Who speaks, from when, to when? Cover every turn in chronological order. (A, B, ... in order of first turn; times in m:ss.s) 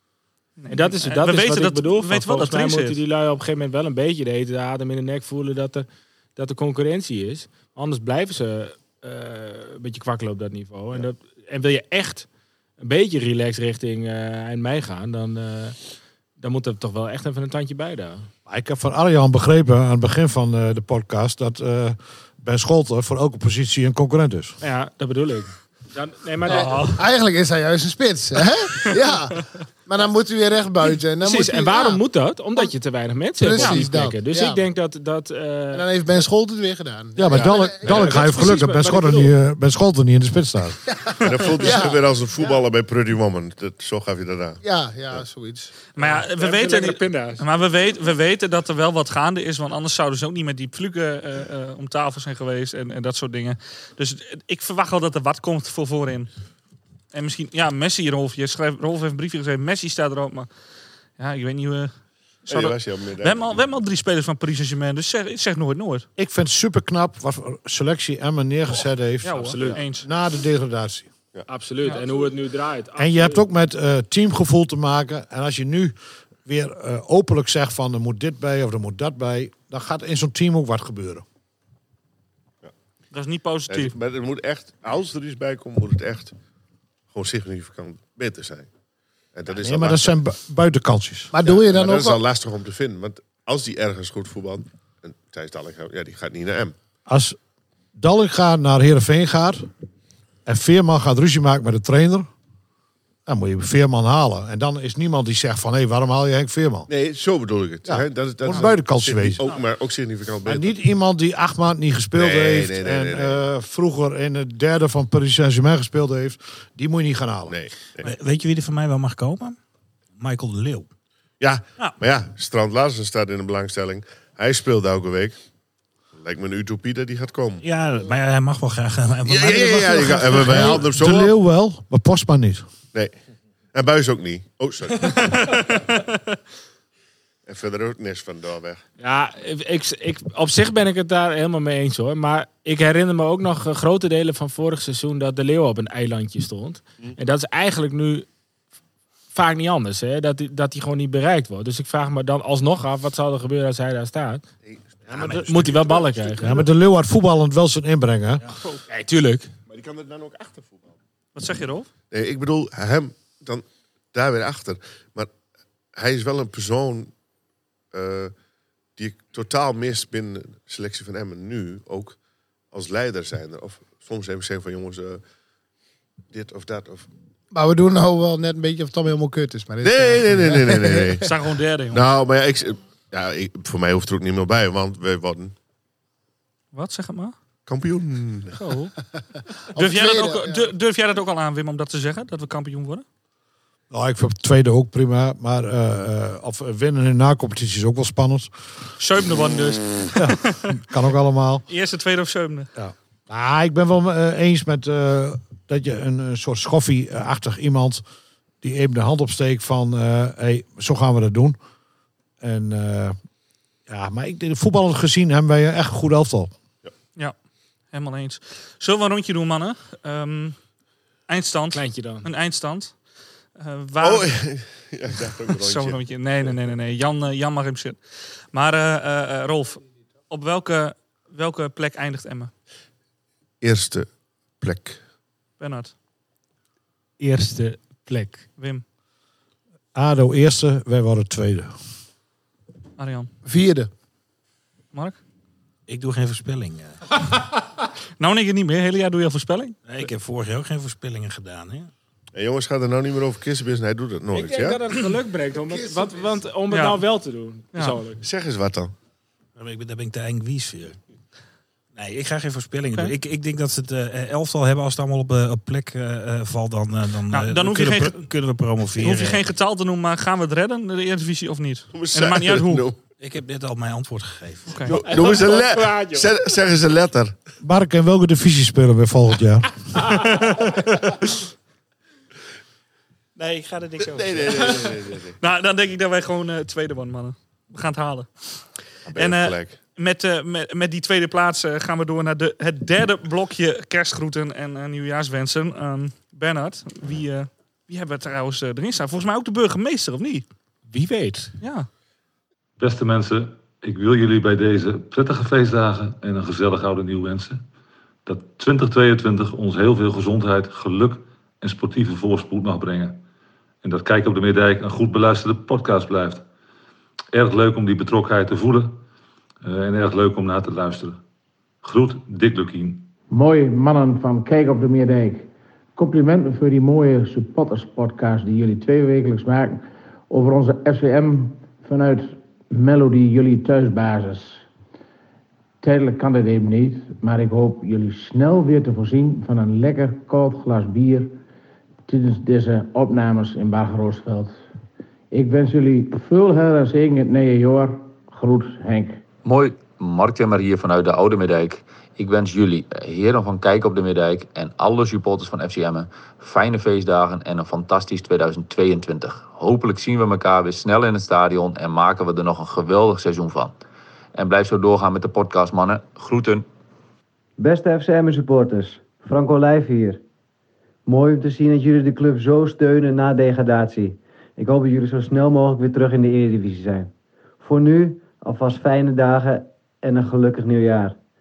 0:00.6-0:03.0 A
0:00.7-0:12.3 B
0:12.8-0:15.8 B
0:16.4-0:18.3 B
0:18.4-0:24.6 C
0:24.6-0:26.9 B
0:26.4-0:32.0 D
0:26.5-0:27.0 A
0:31.2-0:35.8 B
0:33.4-0:34.6 D
0:33.6-0:33.8 A
0:35.7-0:38.4 D
0:37.2-0:40.8 C
0:37.8-0:39.3 B
0:41.1-0:42.6 D
0:41.2-0:44.6 E
0:44.6-0:45.7 D
0:45.9-0:56.3 A
0:46.0-0:47.4 B
0:57.1-1:00.5 A
1:01.2-1:01.9 A
1:02.5-1:03.8 E
1:02.5-1:06.0 A
1:06.2-1:11.1 C
1:09.2-1:10.0 A
1:09.3-1:09.8 B
1:11.5-1:13.4 B
1:13.0-1:21.2 C
1:23.1-1:23.9 A
1:23.7-1:26.3 E
1:27.1-1:28.7 E
1:29.3-1:30.2 E
1:29.5-1:31.3 C
1:31.3-1:32.2 D
1:31.4-1:36.7 E
1:37.1-1:37.4 C
1:38.0-1:39.7 C
1:40.4-1:42.3 C
1:43.2-1:46.9 C
1:46.9-1:50.7 E
1:47.8-1:49.4 C
1:50.4-1:57.5 C
1:52.1-1:53.4 E
1:57.5-1:58.1 E
1:58.0-1:59.6 F
2:00.2-2:00.9 F
2:01.4-2:05.4 E
2:06.1-2:07.6 E
2:07.6-2:10.8 F
2:09.2-2:11.3 E
2:10.5-2:12.6 C
2:13.7-2:15.4 E
2:15.0-2:16.3 A
2:17.4-2:18.8 E
2:19.0-2:28.3 B
2:29.3-2:34.4 B
2:34.6-2:35.0 E
2:35.1-2:36.6 B
2:35.1-2:35.8 F
2:35.7-2:36.5 E
2:36.4-2:38.4 C
2:38.9-2:39.5 B
2:39.7-2:40.9 E
2:41.3-2:41.9 A
2:42.1-2:45.3 E
2:45.9-2:47.1 E
2:47.9-2:48.3 E
2:49.0-2:52.2 E
2:52.7-2:55.2 E
2:56.3-2:57.1 E
2:57.5-3:01.2 D
2:59.8-3:01.2 E
3:01.2-3:02.0 A
3:01.9-3:05.5 E
3:06.7-3:07.4 A
3:07.6-3:08.6 E
3:08.6-3:08.9 A
3:09.7-3:10.6 D
3:09.8-3:13.0 A
3:13.9-3:18.5 C
3:19.0-3:20.8 A
3:20.1-3:21.6 C
3:21.7-3:22.7 A
3:22.8-3:28.0 C
3:28.6-3:31.6 C
3:32.4-3:33.2 C
3:33.9-3:36.5 C
3:37.9-3:40.6 A
3:41.3-3:42.9 A
3:41.7-3:42.2 B
3:43.6-3:44.3 A
3:44.0-3:46.5 E
3:45.5-3:48.0 A
3:48.5-3:52.5 A
3:53.6-3:55.0 E
3:55.6-3:55.9 A
3:57.2-3:58.4 B
3:58.6-3:58.8 A
3:59.9-4:01.7 C
4:03.0-4:03.3 A
4:03.4-4:03.9 D
4:04.9-4:05.2 A
4:05.9-4:07.0 F
4:08.2-4:09.8 A
4:09.9-4:11.9 F
4:12.3-4:14.8 E
4:14.3-4:18.2 B
4:15.7-4:16.3 D
4:16.7-4:17.0 A
4:17.7-4:18.0 A
4:18.2-4:18.9 E
4:19.6-4:21.0 F
4:21.9-4:29.4 F
4:27.3-4:28.1 A
4:29.0-4:32.8 A
4:31.9-4:33.0 E
4:33.2-4:34.9 F
4:34.7-4:35.0 A
4:34.9-4:37.3 E
4:35.0-4:36.3 B
4:37.6-4:39.7 C
4:40.1-4:41.1 A
4:43.4-4:44.8 F
4:44.0-4:45.4 E
4:45.4-5:00.4 A
4:49.1-4:49.8 E
5:00.9-5:01.5 B
5:01.6-5:01.9 A
5:02.8-5:07.6 G
5:08.2-5:13.2 G
5:13.8-5:16.4 G
5:17.3-5:19.0 G
5:19.6-5:21.2 G
5:21.8-5:23.1 G
5:23.3-5:34.6 H
5:35.8-5:41.3 H
5:42.1-5:44.6 H
5:45.3-5:49.2 H
5:49.4-6:03.7 I
6:04.3-6:06.6 I
6:07.6-6:10.2 J
6:11.0-6:17.1 J
6:17.6-6:21.2 J